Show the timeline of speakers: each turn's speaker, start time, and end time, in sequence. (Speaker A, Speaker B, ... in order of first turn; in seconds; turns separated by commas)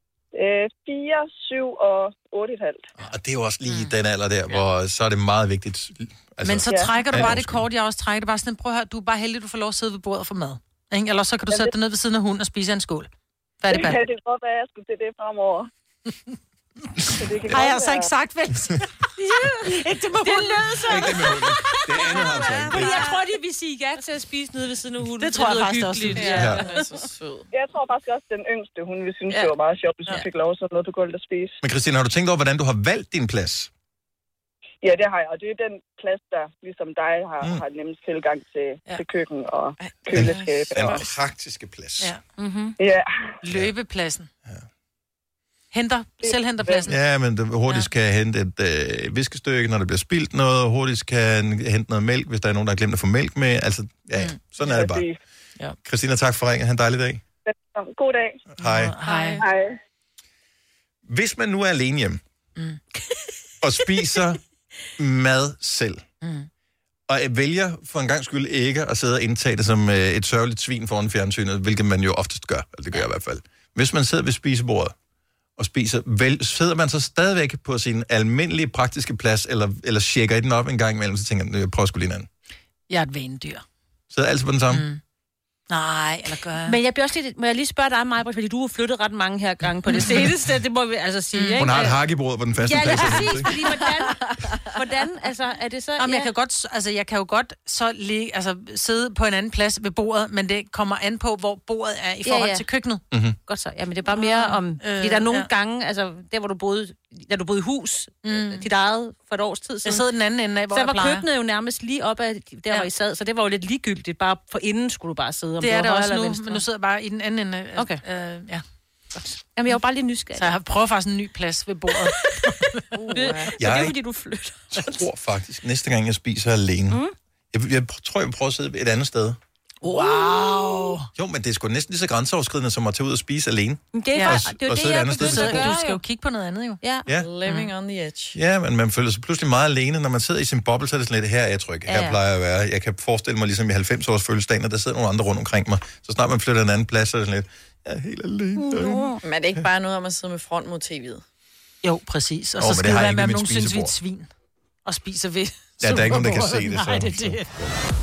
Speaker A: 0.3-2.9, Speaker B: 3.0-7.6, Speaker C: 6.4-13.1, Speaker A: 6.7-6.9, Speaker C: 13.6-14.0, Speaker A: 13.7-15.7, Speaker A: 17.1-18.1, Speaker C: 17.4-21.4, Speaker D: 19.2-27.0, Speaker B: 20.8-23.1, Speaker C: 25.2-26.4, Speaker E: 26.1-27.5, Speaker B: 26.3-26.6, Speaker A: 27.5-31.6, Speaker B: 31.6-33.7, Speaker A: 34.8-41.0, Speaker E: 39.8-41.0, Speaker B: 40.1-42.1, Speaker D: 42.4-42.7, Speaker A: 42.8-43.1, Speaker C: 43.4-44.3, Speaker C: 45.7-47.0, Speaker A: 46.2-46.8, Speaker B: 46.9-55.0, Speaker A: 54.6-55.2, Speaker B: 55.8-57.2, Speaker A: 57.5-58.4, Speaker B: 58.6-58.9, Speaker C: 58.6-59.4, Speaker A: 59.4-59.8, Speaker B: 61.0-62.2, Speaker C: 62.6-62.8, Speaker B: 63.6-64.4, Speaker B: 65.0-66.0, Speaker C: 66.2-66.5, Speaker B: 67.1-74.9, Speaker B: 75.6-82.3, Speaker C: 82.9-83.6, Speaker B: 84.1-84.8, Speaker C: 84.7-85.0, Speaker C: 85.7-86.7, Speaker D: 86.6-92.0, Speaker C: 89.9-90.3, Speaker C: 91.3-91.6, Speaker B: 91.6-93.5, Speaker D: 92.6-96.3, Speaker E: 93.5-94.3, Speaker C: 96.0-103.0, Speaker D: 102.2-102.6, Speaker B: 103.1-103.3, Speaker D: 103.5-110.0, Speaker C: 104.1-105.5, Speaker C: 108.2-108.6, Speaker C: 109.8-111.2, Speaker D: 110.7-116.6, Speaker C: 115.6-119.8, Speaker D: 119.4-120.5, Speaker C: 120.3-122.7, Speaker D: 122.2-122.5, Speaker E: 122.9-123.5, Speaker D: 123.1-125.1, Speaker B: 123.6-124.0, Speaker B: 124.7-129.4, Speaker C: 129.8-131.1, Speaker B: 131.1-135.7, Speaker D: 133.9-136.0, Speaker C: 134.1-134.4, Speaker C: 135.2-136.8, Speaker D: 136.8-137.6, Speaker E: 137.1-138.3, Speaker B: 138.3-149.1, Speaker D: 141.9-142.2, Speaker D: 148.7-149.2, Speaker E: 149.2-151.2, Speaker C: 151.8-154.3, Speaker B: 152.6-153.9, Speaker C: 154.8-157.5, Speaker B: 155.8-157.4